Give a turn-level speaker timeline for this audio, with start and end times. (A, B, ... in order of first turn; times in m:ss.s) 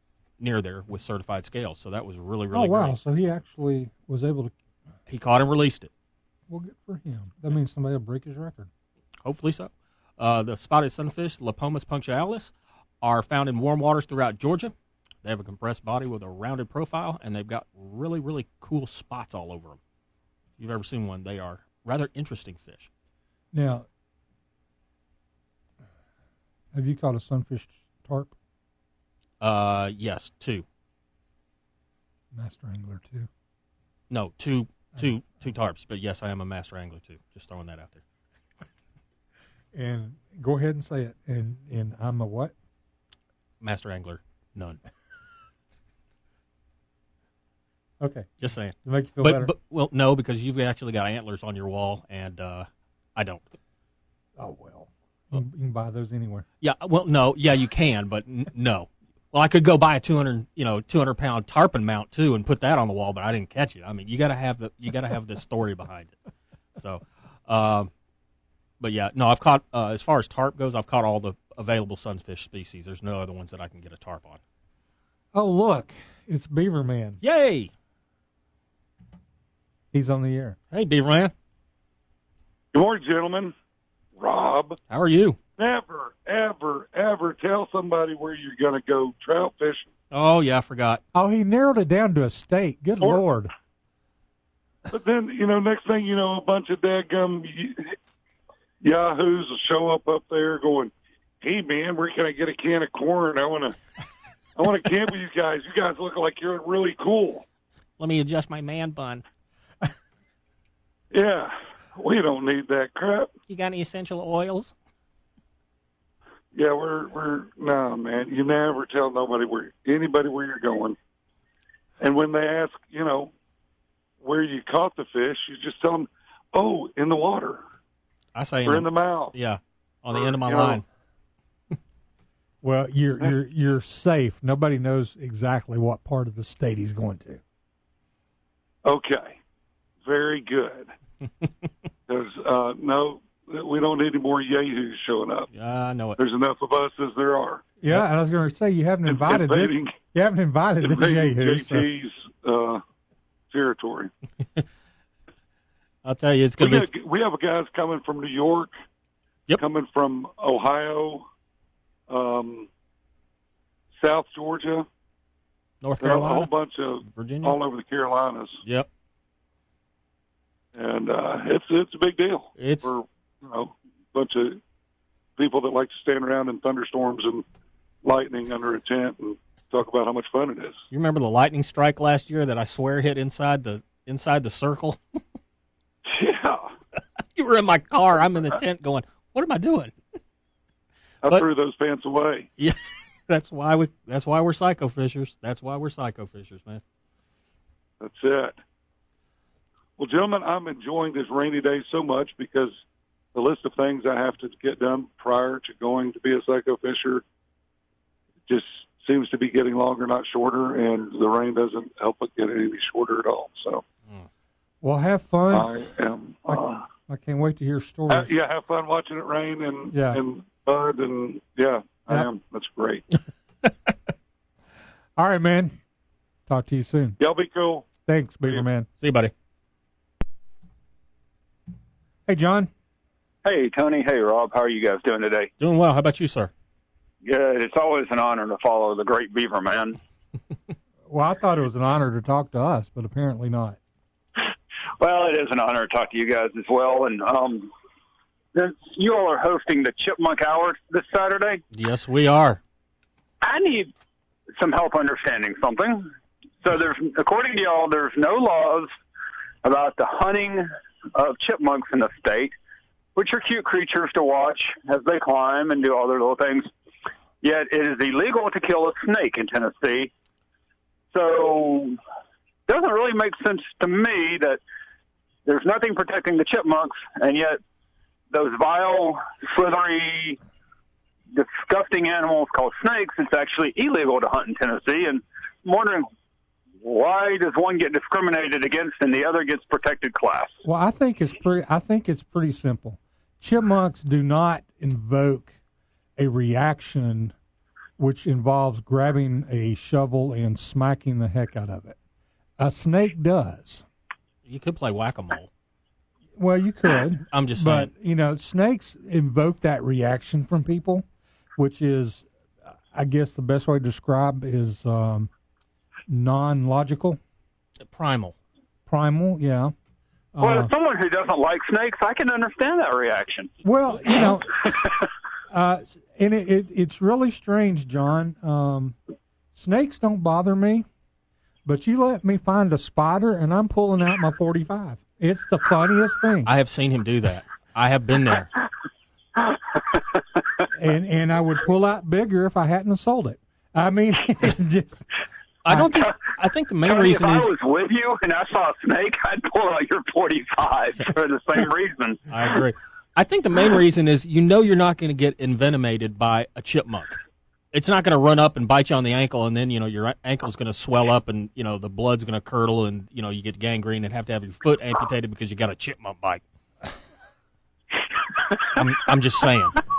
0:00.4-0:03.0 A
0:02.5-0:04.5 B
0:05.1-0:05.9 A
0:06.5-0:08.7 B
0:09.2-0:19.8 A
0:20.6-0:22.9 A
0:23.5-0:23.9 B
0:26.7-0:28.3 B
0:29.4-0:30.6 A
0:32.3-0:33.3 B
0:34.1-0:38.0 A
0:39.7-0:42.5 B
0:43.6-0:44.8 A
0:48.0-0:48.3 B
0:48.4-0:53.5 A
0:48.8-0:49.5 B
0:54.4-0:56.5 B
0:56.6-1:06.2 A
1:06.8-1:07.9 A
1:08.8-1:14.4 A
1:15.3-1:17.2 B
1:17.2-1:17.7 A
1:19.9-1:20.6 B
1:20.7-1:21.3 A
1:22.7-1:23.5 C
1:24.2-1:24.8 C
1:24.9-1:25.4 A
1:25.6-1:29.9 C
1:30.1-1:31.0 A
1:31.1-1:33.5 B
1:34.9-1:38.0 C
1:38.8-1:43.8 C
1:44.6-1:47.4 C
1:48.0-1:49.2 A
1:51.1-1:53.3 C
1:53.5-1:54.8 A
1:56.5-2:01.0 C
2:02.0-2:03.3 C
2:04.2-2:07.6 C
2:08.3-2:10.8 A
2:08.6-2:09.3 C
2:10.1-2:10.8 C
2:12.6-2:17.4 B
2:18.8-2:19.4 C
2:20.0-2:20.9 C
2:22.1-2:25.5 C
2:25.5-2:26.2 A
2:26.2-2:27.6 C
2:27.8-2:31.9 B
2:29.1-2:30.0 C
2:30.8-2:32.8 C
2:33.5-2:34.1 C
2:36.0-2:36.9 A
2:36.6-2:38.7 C
2:39.6-2:41.3 C
2:42.1-2:42.7 C
2:44.0-2:44.9 C
2:45.8-2:46.5 A
2:46.0-2:48.6 C
2:47.0-2:47.6 A
2:50.8-2:54.6 C
2:52.6-2:52.9 A
2:55.4-2:57.4 C
2:58.0-3:00.8 C
3:00.9-3:05.0 A
3:06.1-3:06.7 C
3:07.4-3:10.0 A
3:11.2-3:12.5 C
3:12.6-3:16.8 A
3:18.0-3:18.6 C
3:20.0-3:22.7 C
3:23.4-3:27.2 C
3:28.5-3:33.8 C
3:34.8-3:35.7 B
3:35.5-3:36.8 C
3:36.5-3:38.3 B
3:38.1-3:43.0 C
3:39.9-3:40.2 B
3:43.7-3:43.9 A
3:45.2-3:45.8 B
3:46.5-3:47.2 B
3:47.2-3:47.8 C
3:48.1-3:48.9 B
3:49.0-3:49.3 A
3:52.3-3:52.7 B
3:53.4-3:55.5 D
3:55.6-3:56.5 A
3:57.2-4:00.0 D
4:01.1-4:03.8 B
4:05.0-4:07.7 D
4:08.6-4:11.6 D
4:11.7-4:12.6 A
4:13.4-4:13.9 D
4:14.6-4:18.9 D
4:19.6-4:22.6 D
4:23.2-4:26.7 D
4:27.4-4:30.1 D
4:31.1-4:32.0 D
4:32.7-4:34.6 D
4:35.5-4:37.6 D
4:38.3-4:40.4 D
4:41.3-4:46.1 D
4:46.8-4:50.6 D
4:50.6-4:55.6 B
4:56.2-4:57.4 B
4:58.0-5:02.0 B
5:02.6-5:03.8 B
5:04.4-5:05.5 A
5:06.4-5:11.0 B
5:07.3-5:07.9 A
5:11.6-5:12.2 B
5:12.9-5:15.3 B
5:16.1-5:17.2 B
5:17.8-5:18.4 A
5:18.9-5:19.7 B
5:20.4-5:20.7 B
5:20.4-5:23.5 D
5:23.6-5:24.8 B
5:25.5-5:29.0 B
5:29.6-5:30.9 B
5:31.7-5:36.5 B
5:36.4-5:38.5 A
5:40.8-5:45.1 B
5:45.6-5:47.5 A
5:46.8-5:52.6 D
5:52.3-5:57.2 A
5:57.7-6:06.4 A
6:08.7-6:09.8 A